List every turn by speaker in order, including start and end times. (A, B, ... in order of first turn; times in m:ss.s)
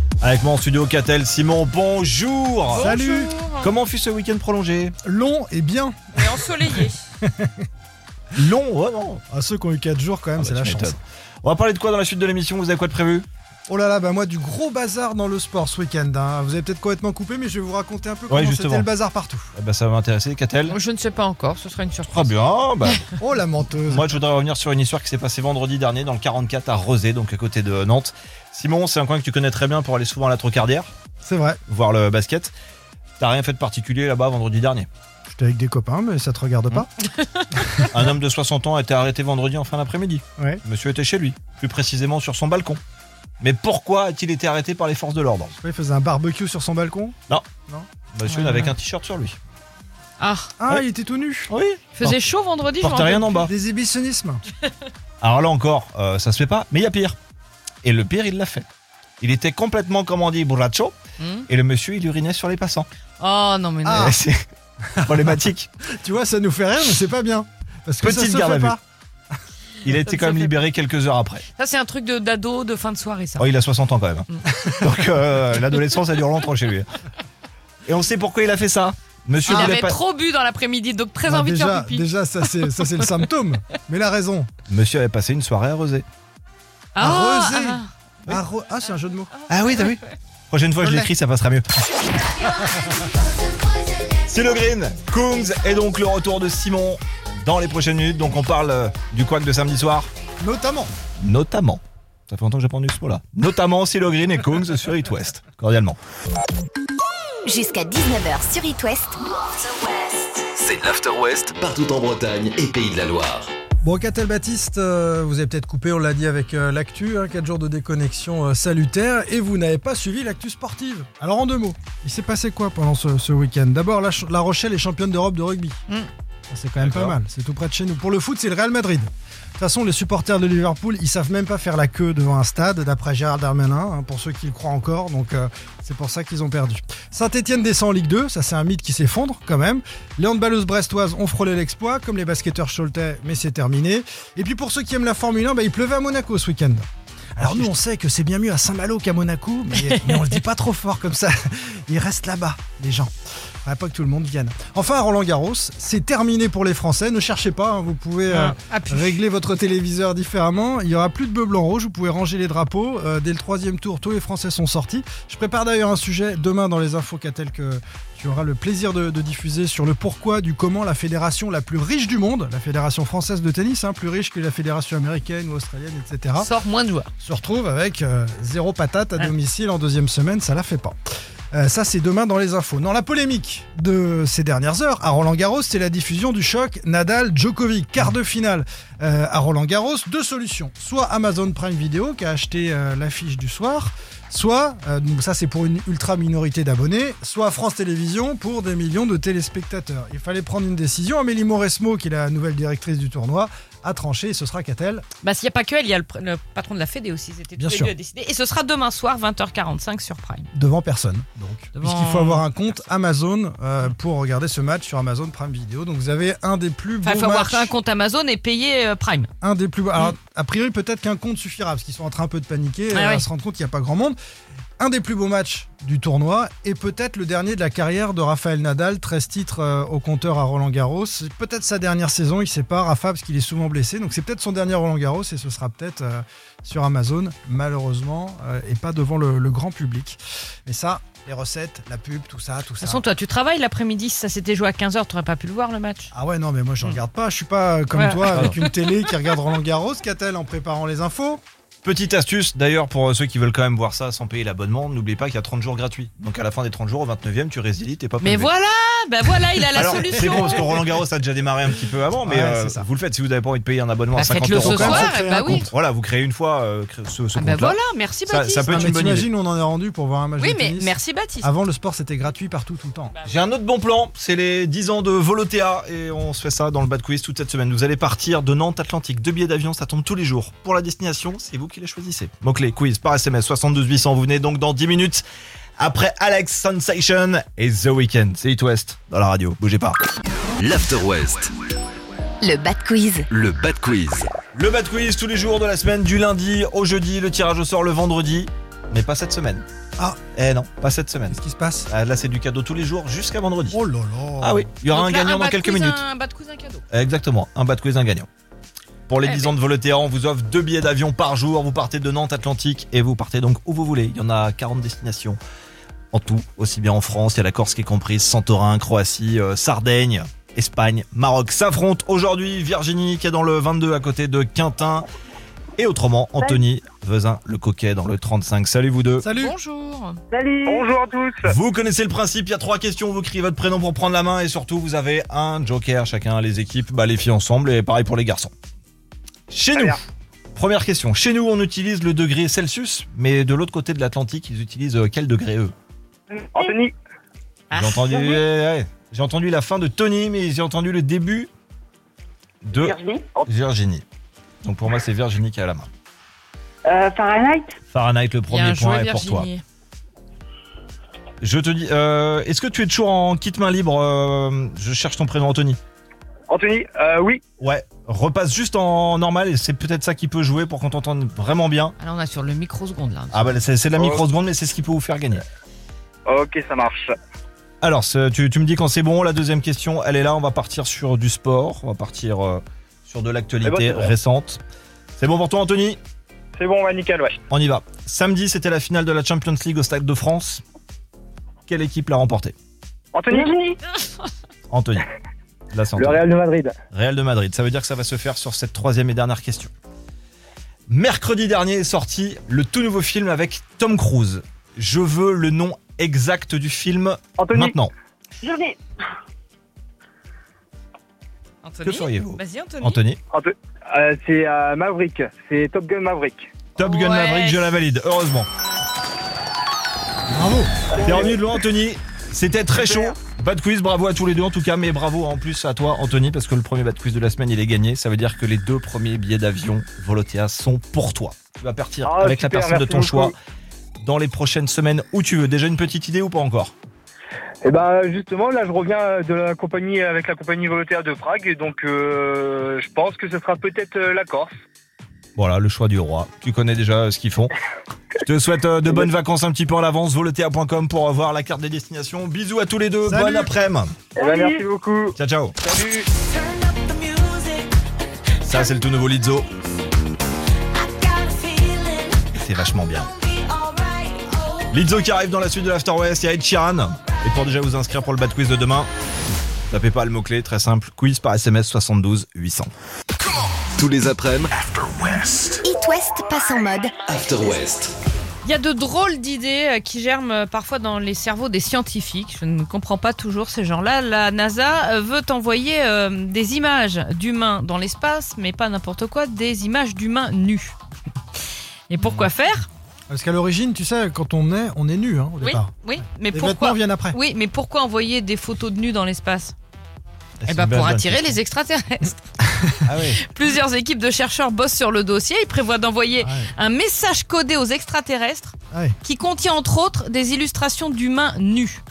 0:00.2-0:03.0 A
0:02.7-0:03.7 B
0:02.8-0:03.3 C
0:03.6-0:05.0 A
0:05.0-0:07.6 C
0:06.2-0:07.0 B
0:08.4-0:09.2 A
0:09.3-0:11.0 C
0:10.4-0:13.3 A
0:13.7-0:19.5 C
0:18.3-0:18.9 A
0:19.6-0:20.8 A
0:20.7-0:22.3 B
0:22.0-0:23.1 A
0:23.2-0:24.1 C
0:23.9-0:30.9 A
0:31.2-0:31.6 C
0:31.7-0:32.5 A
0:33.2-0:34.9 A
0:35.3-0:36.9 C
0:37.8-0:42.8 A
0:43.4-0:45.6 A
0:45.6-0:47.2 C
0:48.1-0:49.4 A
0:48.3-0:48.7 B
0:50.2-0:50.5 B
0:50.6-0:51.5 C
0:51.5-0:52.2 A
0:52.0-0:53.4 B
0:52.8-0:53.5 A
0:53.4-0:54.4 C
0:55.2-0:57.2 A
0:57.8-0:58.7 A
0:59.2-1:01.0 A
1:01.2-1:01.5 B
1:01.5-1:02.9 A
1:03.2-1:04.2 B
1:03.8-1:04.2 C
1:03.9-1:04.4 A
1:05.0-1:05.3 C
1:05.0-1:05.7 A
1:05.9-1:08.8 C
1:08.0-1:08.8 A
1:09.8-1:11.4 A
1:09.9-1:10.6 B
1:11.6-1:13.5 B
1:13.4-1:16.9 A
1:17.9-1:20.0 A
1:19.4-1:23.1 B
1:19.5-1:19.8 C
1:21.3-1:24.5 C
1:24.7-1:26.0 A
1:27.0-1:27.9 B
1:27.0-1:29.3 C
1:29.4-1:30.0 B
1:29.5-1:31.7 A
1:30.8-1:31.1 C
1:32.5-1:32.9 C
1:34.3-1:40.1 A
1:40.4-1:40.9 C
1:41.2-1:46.0 A
1:47.4-1:49.2 D
1:50.1-1:53.5 E
1:53.8-2:05.8 C
2:06.5-2:26.9 C
2:06.8-2:07.2 A
2:27.4-2:33.1 C
2:27.4-2:27.7 A
2:29.8-2:30.3 B
2:33.6-2:56.5 C
2:38.3-2:39.2 B
2:56.4-2:57.1 B
2:57.2-3:01.0 C
3:01.5-3:25.0 C
3:25.2-3:30.5 B
3:27.6-3:27.9 C
3:30.5-3:37.8 C
3:31.8-3:32.5 B
3:37.0-3:39.3 B
3:39.4-3:44.2 C
3:42.9-3:43.3 B
3:44.8-4:03.0 C
4:02.8-4:06.1 B
4:06.1-4:11.4 C
4:07.9-4:09.2 B
4:11.8-4:18.5 A
4:18.2-4:20.6 B
4:19.7-4:29.3 A
4:20.0-4:20.6 C
4:22.2-4:22.8 C
4:24.1-4:25.7 B
4:24.5-4:25.7 C
4:27.4-4:28.7 B
4:28.7-4:33.2 C
4:30.4-4:31.5 B
4:33.2-4:45.2 A
4:45.8-4:50.0 A
4:50.6-4:51.5 E
4:52.4-4:53.3 D
4:53.3-4:54.4 E
4:54.5-4:59.7 A
5:00.3-5:03.8 A
5:01.3-5:01.9 C
5:03.7-5:04.7 C
5:04.4-5:06.0 A
5:04.9-5:06.8 B
5:06.9-5:08.3 A
5:09.1-5:15.4 A
5:09.2-5:09.5 B
5:16.1-5:25.1 A
5:25.8-5:29.3 A
5:29.2-5:29.6 C
5:29.4-5:30.2 B
5:30.5-5:30.8 F
5:30.6-5:31.4 G
5:31.4-5:38.5 A
5:39.5-5:40.0 A
5:40.6-5:45.7 A
5:46.6-5:46.9 G
5:47.7-5:48.4 B
5:47.7-5:51.5 A
5:52.6-5:54.0 A
5:52.8-5:53.3 F
5:54.6-5:55.9 A
5:56.9-5:57.7 F
5:57.9-5:59.5 A
5:58.5-5:59.6 B
6:01.4-6:05.8 A
6:06.5-6:07.4 G
6:07.6-6:12.0 A
6:12.0-6:13.6 B
6:13.3-6:15.4 A
6:14.0-6:14.2 G
6:16.3-6:17.1 G
6:17.8-6:24.6 A
6:23.6-6:24.1 G
6:25.2-6:26.0 A
6:26.6-6:27.4 G
6:27.5-6:30.6 A
6:31.7-6:32.6 A
6:33.1-6:33.6 G
6:34.7-6:35.1 A
6:35.7-6:36.2 A
6:36.0-6:36.7 G
6:36.9-6:39.7 A
6:40.9-6:47.9 A
6:47.4-6:47.7 G
6:48.4-6:48.8 F
6:51.6-6:53.0 B
6:51.8-6:53.2 A
6:53.3-6:56.4 G
6:56.8-6:58.5 A
6:56.8-6:57.7 B
7:00.3-7:00.7 C
7:00.9-7:13.4 A
7:12.0-7:13.3 G
7:14.0-7:16.7 A
7:17.6-7:24.5 G
7:25.4-7:27.5 A
7:28.2-7:33.9 A
7:33.0-7:33.5 C
7:34.2-7:36.0 G
7:35.2-7:35.6 A
7:38.4-7:39.5 A
7:42.3-7:43.2 A
7:44.7-7:48.9 A
7:49.7-7:52.7 A
7:53.8-7:55.6 E
7:55.6-7:57.0 D
7:57.1-7:57.9 E
7:58.4-8:10.8 B
8:11.9-8:12.7 B
8:13.1-8:15.7 C
8:15.4-8:19.6 B
8:16.3-8:17.2 C
8:20.4-8:21.4 A
8:20.5-8:31.8 B
8:22.9-8:23.2 A
8:26.2-8:26.5 C
8:28.7-8:29.0 C